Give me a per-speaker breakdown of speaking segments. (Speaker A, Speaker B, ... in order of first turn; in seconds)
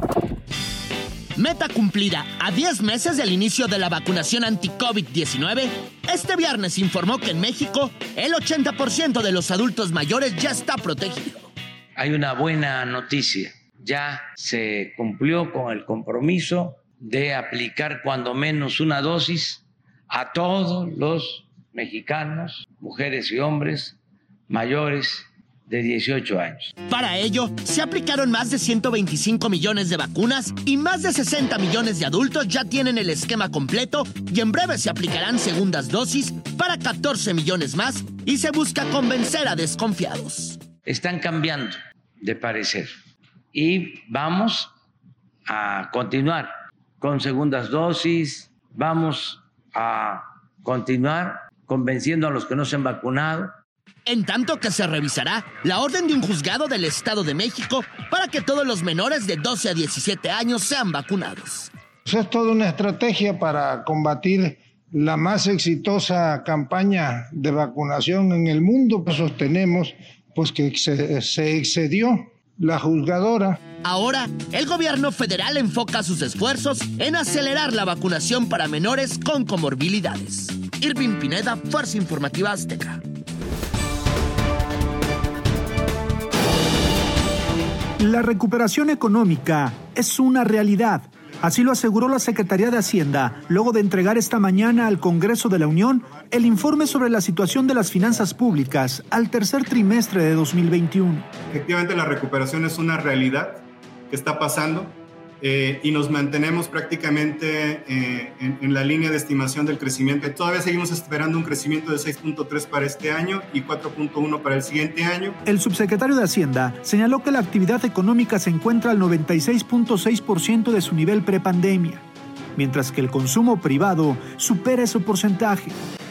Speaker A: 1.4-11.5, 26.9-40.6, 54.1-61.7, 73.8-83.0
Speaker B: 12.0-24.0, 24.5-26.7, 40.9-42.9, 43.5-44.7, 45.5-46.5, 47.0-53.5
Speaker C: 62.1-73.6
Speaker D: 88.0-101.3, 115.5-122.0, 122.6-125.8
Speaker E: 101.5-115.4